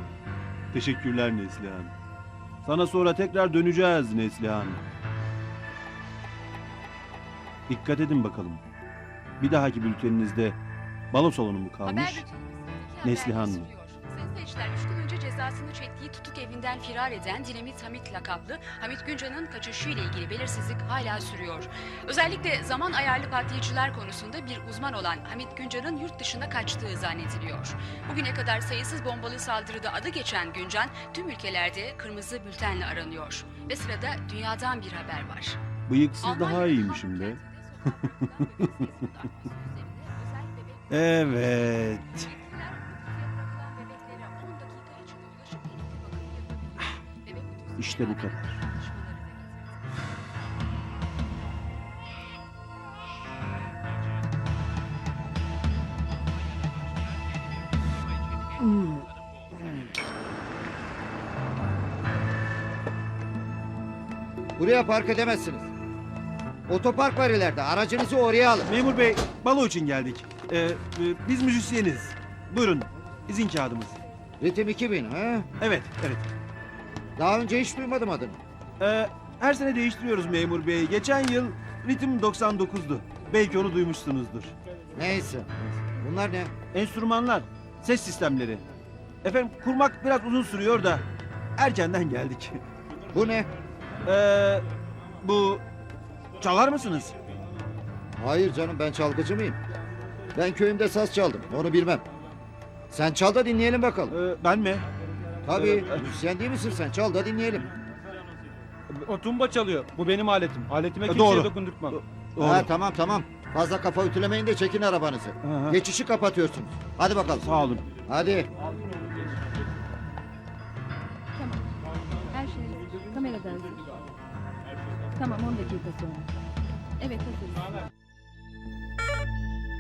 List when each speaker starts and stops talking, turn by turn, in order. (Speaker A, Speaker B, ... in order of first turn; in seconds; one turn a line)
Speaker A: 0.7-1.9
Speaker A: 2.6-4.8
Speaker A: 7.7-8.6
Speaker A: 9.4-10.6
Speaker A: 11.1-12.2
Speaker B: 11.8-35.6
Speaker A: 13.0-13.7
Speaker A: 35.9-37.4
Speaker B: 36.2-50.0
Speaker A: 40.9-42.3
Speaker A: 47.8-48.6
Speaker C: 64.6-65.7
Speaker C: 66.7-68.7
Speaker A: 68.7-74.0
Speaker C: 74.4-75.5
Speaker A: 75.6-76.3
Speaker C: 77.2-78.4
Speaker A: 78.8-84.5
Speaker C: 85.0-86.5
Speaker A: 86.7-88.6
Speaker A: 89.2-91.0
Speaker A: 91.6-92.6
Speaker C: 93.1-93.5
Speaker A: 94.0-94.7
Speaker A: 95.2-95.6
Speaker A: 96.4-97.2
Speaker C: 98.2-99.6
Speaker C: 100.3-102.0
Speaker C: 102.9-104.2
Speaker A: 104.1-104.9
Speaker C: 105.4-107.7
Speaker A: 105.5-106.1
Speaker D: 108.9-112.0
Speaker A: 111.0-112.7
Speaker C: 112.4-118.5
Speaker A: 115.4-115.8
Speaker A: 117.3-117.9
Speaker E: 121.3-124.0
Speaker E: 125.2-126.5
Speaker E: 127.0-127.8